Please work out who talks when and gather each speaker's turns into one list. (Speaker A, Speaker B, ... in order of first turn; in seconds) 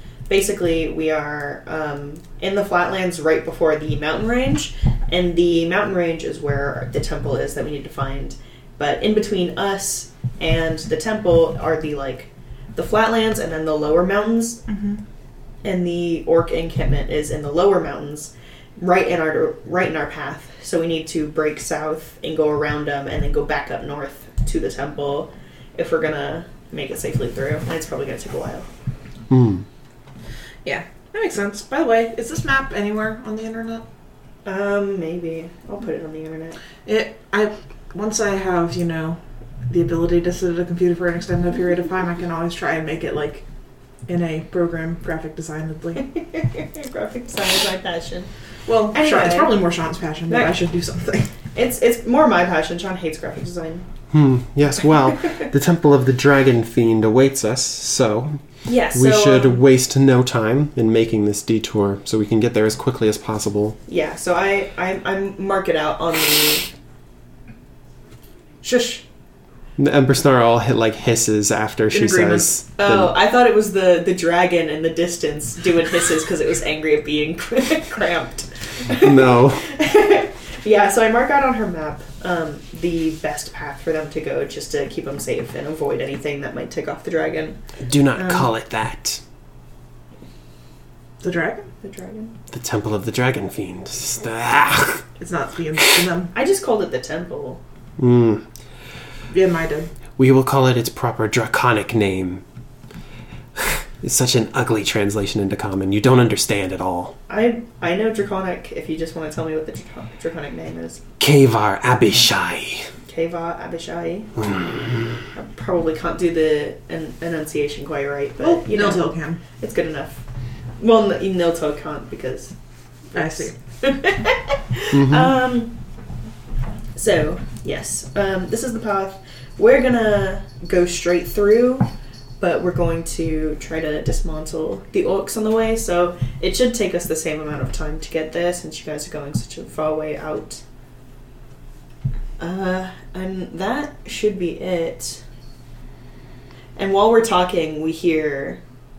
Speaker A: 0.3-14.6, 15.6-28.7, 34.4-36.6, 46.1-48.3, 48.9-49.6, 51.5-53.9, 55.2-55.5, 58.6-59.6, 63.9-66.7, 72.8-87.6, 88.2-88.5, 91.8-92.3, 96.3-97.6, 107.3-111.0, 113.1-114.3, 115.3-120.2, 120.8-122.5, 123.1-125.7, 127.0-131.8, 132.4-140.6, 142.4-145.2, 146.8-148.6
Speaker B: 14.7-15.0, 30.6-33.8, 36.9-43.4, 44.1-46.0, 48.6-51.3, 68.6-69.0, 71.9-72.5, 91.2-91.7, 95.2-96.3, 99.3-99.9, 118.4-119.4, 123.1-123.5
Speaker C: 29.3-29.6, 54.1-58.4, 58.9-63.8, 69.8-73.1, 78.9-79.7, 87.8-89.2, 92.5-95.0, 98.0-98.4, 100.2-102.4, 103.5-107.1, 111.2-112.9, 114.4-114.9, 124.9-125.3